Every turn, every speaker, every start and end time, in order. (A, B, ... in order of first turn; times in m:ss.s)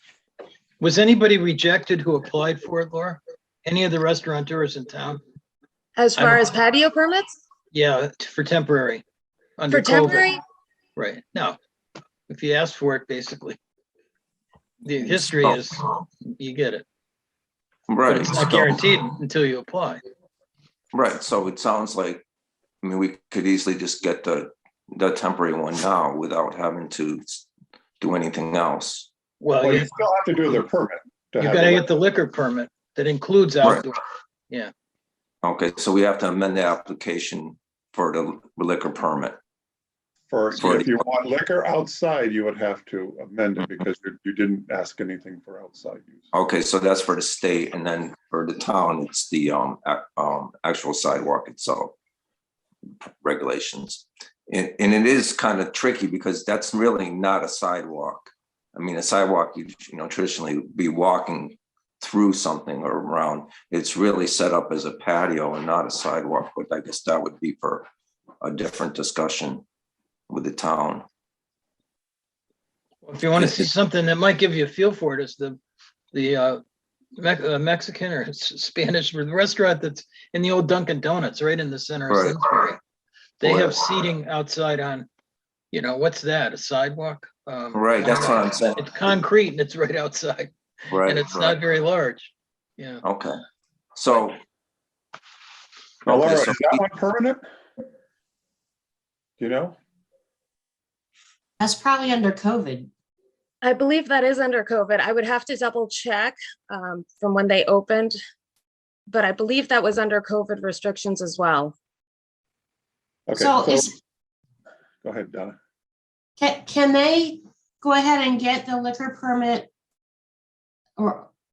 0:00.8-0:05.2 A
0:06.0-0:07.3 B
0:06.2-0:06.5 A
0:07.7-0:09.0 A
0:09.6-0:10.2 A
0:09.7-0:10.4 B
0:11.0-0:11.6 A
0:12.3-0:13.6 A
0:14.8-0:16.8 A
0:17.9-0:19.0 C
0:18.1-0:20.0 A
0:20.9-0:22.2 C
0:22.8-0:27.5 C
0:28.0-0:29.1 C
0:29.4-0:29.9 A
0:29.6-0:31.9 D
0:31.4-0:34.0 A
0:35.4-0:39.4 C
0:40.3-0:46.2 D
0:40.5-0:41.1 C
0:46.3-0:52.0 C
0:53.0-1:07.9 C
1:08.4-1:09.6 C
1:10.3-1:11.1 C
1:13.0-1:15.6 A
1:13.4-1:13.7 C
1:16.1-1:16.6 A
1:17.2-1:22.8 A
1:22.1-1:22.7 C
1:23.4-1:25.1 A
1:23.4-1:24.0 C
1:25.7-1:33.0 A
1:27.7-1:28.8 C
1:30.9-1:31.6 C
1:33.0-1:33.4 C
1:34.0-1:34.4 C
1:36.0-1:37.4 D
1:36.1-1:36.8 C
1:39.4-1:39.8 D
1:41.6-1:42.9 E
1:43.6-1:48.2 B
1:49.1-1:51.8 B
1:53.3-1:53.9 D
1:53.4-1:53.9 E
1:55.0-1:55.6 D
1:56.4-1:59.7 E
2:01.0-2:01.3 E